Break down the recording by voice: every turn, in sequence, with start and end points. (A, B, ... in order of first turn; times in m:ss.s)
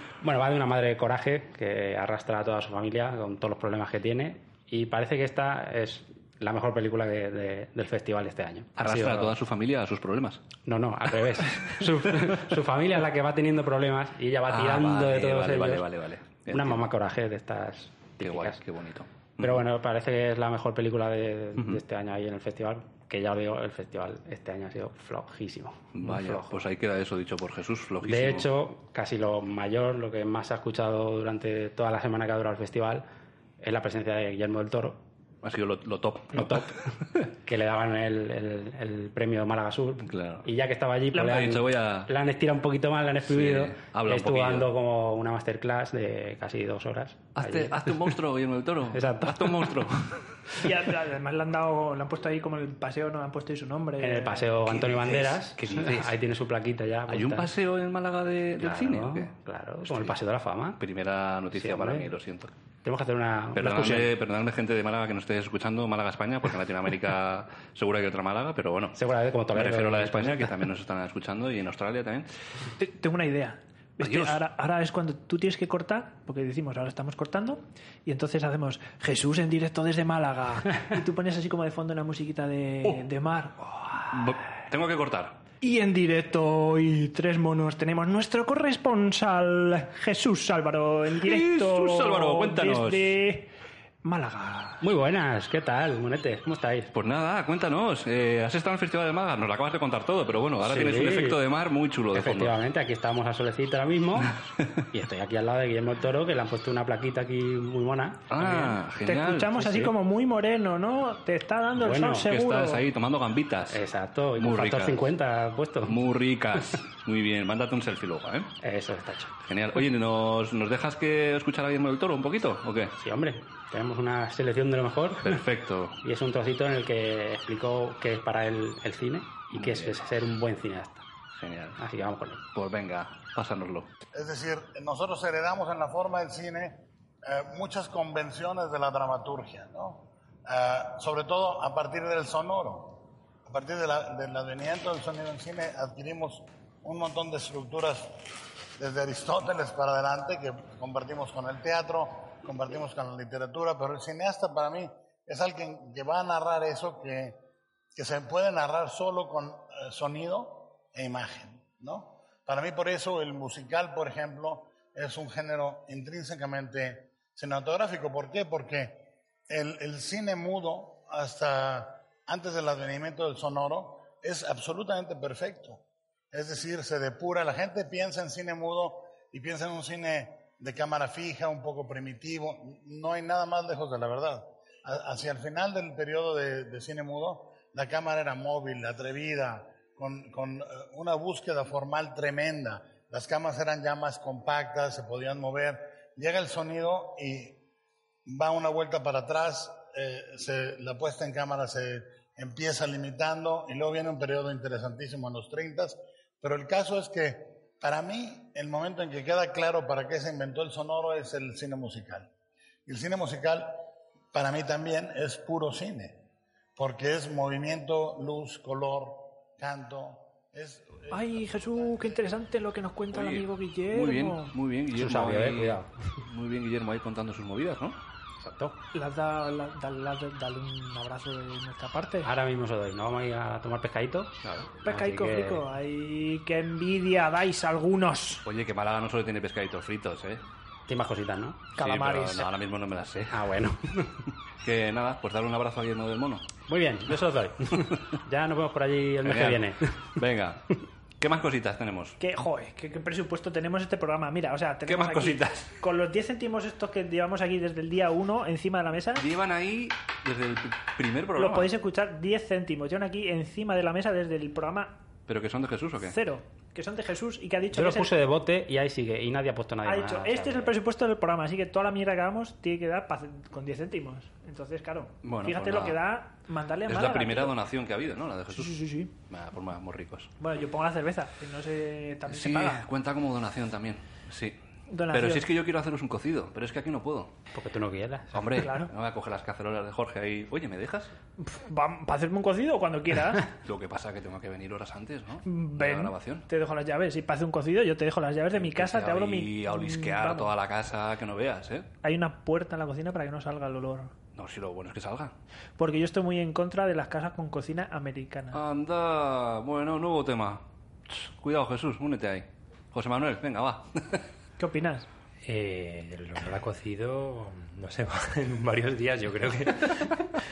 0:00.2-0:09.4 A
0:08.8-0:10.4 B
0:10.6-0:15.9 A
0:14.5-0:16.9 B
0:16.5-0:18.6 A
0:18.2-0:19.6 B
0:19.4-0:26.6 A
0:25.9-0:28.5 B
0:28.0-0:33.0 A
0:33.6-0:35.0 A
0:35.4-0:37.3 B
0:36.3-0:36.7 A
0:37.4-0:48.0 A
0:40.1-0:40.5 B
0:41.1-0:42.1 B
0:43.2-0:44.7 B
0:47.4-0:50.6 B
0:48.9-0:49.9 A
0:50.5-0:54.5 C
0:54.0-0:57.5 A
0:54.6-0:56.2 B
0:57.1-0:59.3 B
0:58.6-1:00.8 A
0:59.9-1:00.2 B
1:00.8-1:02.5 B
1:01.6-1:02.1 A
1:02.8-1:04.1 A
1:03.6-1:09.0 B
1:09.0-1:10.6 A
1:09.5-1:12.3 B
1:12.8-1:24.3 C
1:14.0-1:14.4 B
1:24.1-1:25.4 B
1:25.6-1:33.5 C
1:31.2-1:33.2 B
1:34.0-1:34.8 C
1:34.8-1:36.9 A
1:36.9-1:42.5 B
1:40.6-1:41.4 A
1:42.1-1:44.4 A
1:44.9-1:48.8 A
1:48.3-1:49.7 B
1:49.0-1:52.8 C
1:49.6-1:49.9 A
1:51.8-1:52.3 A
1:52.2-1:53.8 B
1:53.7-1:56.0 A
1:54.4-1:55.0 B
1:55.9-1:58.5 B
1:58.6-1:59.3 A
1:59.4-2:03.0 B
2:03.0-2:05.4 A
2:05.2-2:06.0 B
2:06.0-2:11.1 A
2:09.6-2:10.0 B
2:11.4-2:11.8 B
2:11.8-2:12.4 A
2:12.6-2:13.9 B
2:14.1-2:28.1 D
2:28.8-2:37.4 D
2:38.0-3:17.6 D
3:18.3-3:32.3 D
3:32.9-3:36.3 D
3:36.8-3:42.2 D
3:41.1-3:44.5 C
3:43.1-3:48.0 B
3:44.9-3:45.9 A
3:48.4-3:48.8 A
3:48.9-3:52.3 C
3:52.2-3:55.6 A
3:54.4-3:54.7 B
3:54.8-3:58.4 C
3:58.5-4:00.4 B
4:00.9-4:01.6 A
4:01.8-4:02.5 C
4:01.8-4:03.4 B
4:03.3-4:04.2 A
4:04.6-4:06.5 B
4:06.7-4:10.2 A
4:07.8-4:08.0 B
4:09.2-4:12.2 B
4:12.2-4:19.3 C
4:14.9-4:15.8 B
4:19.2-4:21.7 B
4:21.4-4:25.0 C
4:25.3-4:26.2 B
4:26.0-4:28.1 C
4:27.7-4:30.8 A
4:29.8-4:37.6 C
4:35.2-4:36.0 B
4:36.9-4:40.3 B
4:38.5-4:39.1 C
4:40.4-4:42.8 C
4:42.3-4:44.6 B
4:44.9-4:45.5 C
4:45.1-4:47.3 B
4:47.5-4:48.6 A
4:48.3-4:51.1 B
4:48.6-4:48.9 C
4:51.4-4:53.5 C
4:53.6-4:56.5 B
4:55.4-5:00.5 C
4:58.6-5:01.9 B
5:02.0-5:04.1 C
5:04.4-5:05.4 B
5:05.8-5:08.6 C
5:08.5-5:14.3 B
5:14.6-5:15.1 C
5:15.4-5:20.2 E